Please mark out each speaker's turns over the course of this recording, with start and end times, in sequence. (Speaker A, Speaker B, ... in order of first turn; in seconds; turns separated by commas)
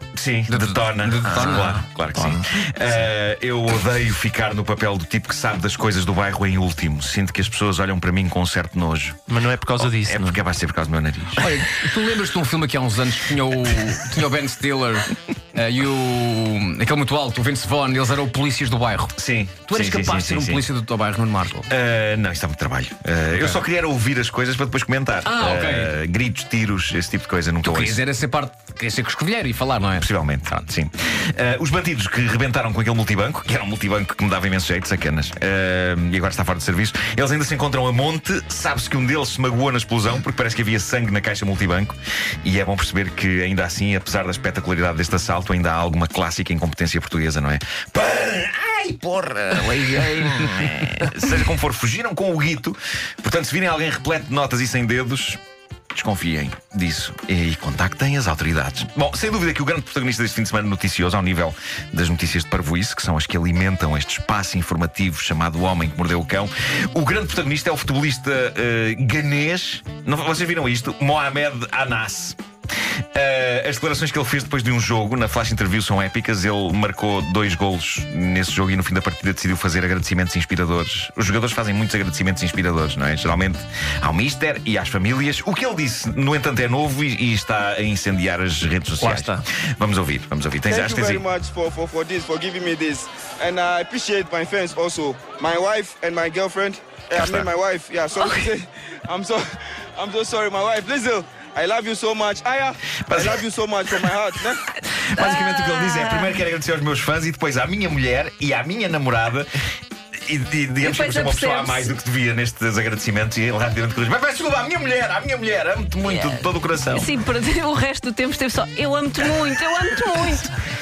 Speaker A: 0.1-9.2, Speaker B: 0.5-1.8, Speaker C: 1.2-2.5, Speaker C: 9.3-10.4, Speaker A: 9.8-11.6, Speaker B: 11.3-19.1, Speaker A: 19.1-20.7, Speaker B: 19.7-21.7, Speaker A: 21.6-28.0, Speaker B: 25.2-25.9, Speaker B: 27.6-30.1, Speaker A: 29.9-55.4, Speaker A: 55.9-72.4, Speaker A: 73.1-91.2, Speaker C: 89.0-89.4, Speaker D: 90.7-99.4, Speaker A: 97.2-97.5, Speaker D: 100.0-104.6, Speaker A: 103.1-104.1, Speaker A: 104.8-109.5, Speaker E: 105.2-106.3, Speaker A: 110.2-117.1, Speaker E: 110.8-111.9, Speaker E: 116.9-120.5